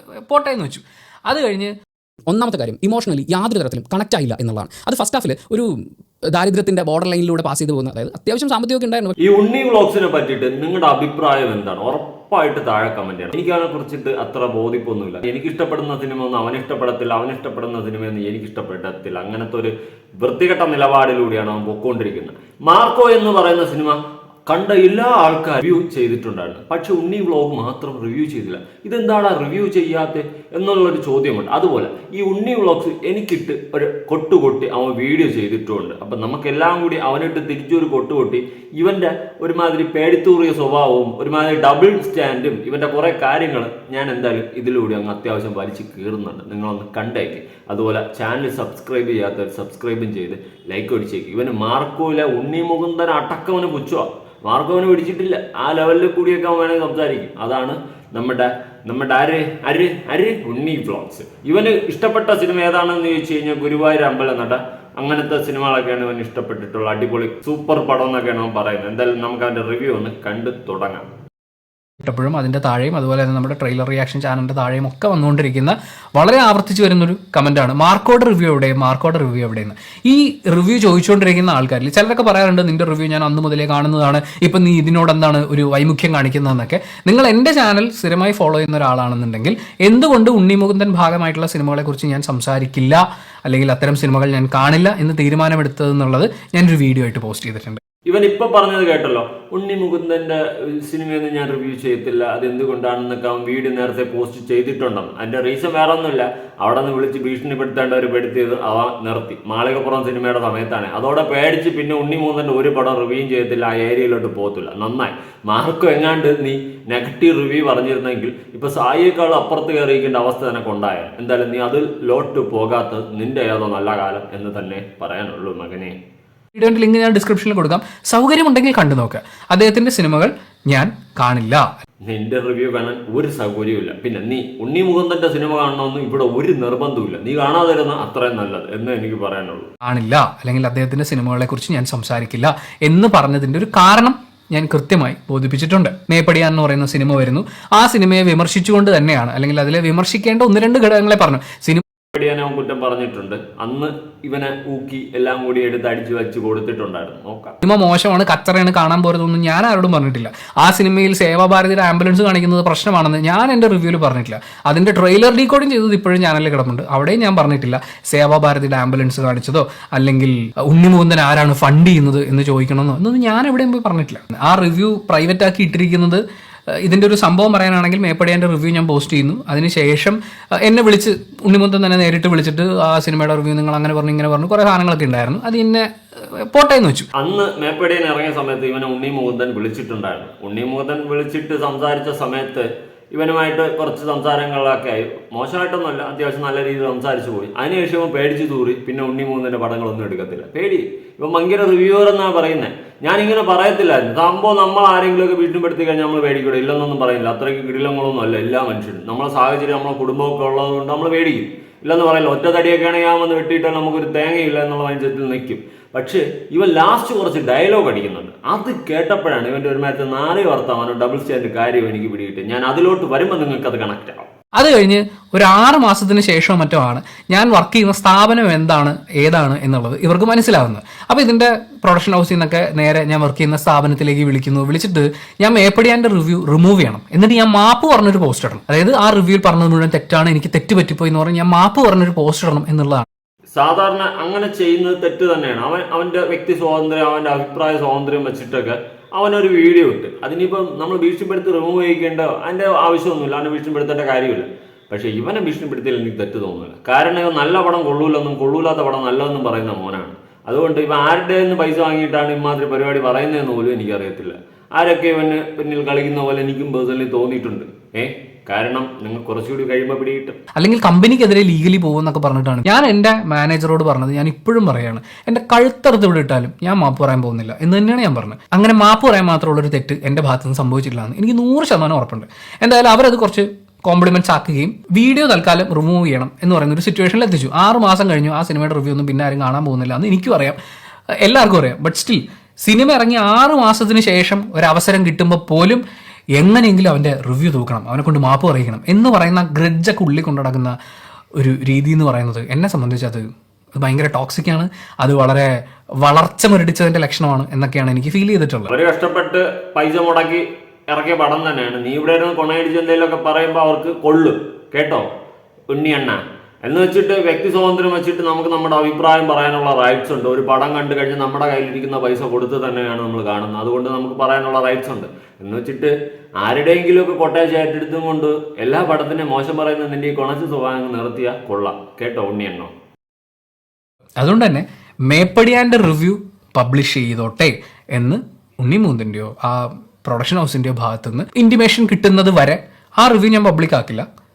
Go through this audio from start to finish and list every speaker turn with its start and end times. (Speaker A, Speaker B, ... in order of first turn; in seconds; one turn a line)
Speaker A: 0.2-1.7
Speaker B: 2.3-5.7
Speaker B: 6.3-9.1
Speaker C: 9.2-71.1
Speaker A: 72.0-97.8
Speaker C: 98.1-126.0
Speaker A: 126.5-131.7
Speaker C: 132.1-139.7
Speaker A: 139.8-151.8
Speaker C: 152.1-157.5
Speaker A: 157.6-176.2
Speaker A: 176.8-187.1
Speaker C: 187.2-224.3
Speaker A: 224.6-243.1
Speaker C: 243.5-270.4
Speaker A: 270.6-290.6
Speaker A: 291.2-295.8
Speaker A: 296.4-300.8
Speaker A: 301.4-303.2
Speaker A: 303.8-305.5
Speaker A: 306.0-308.7
Speaker C: 308.7-315.1
Speaker C: 315.7-332.7
Speaker A: 334.2-344.1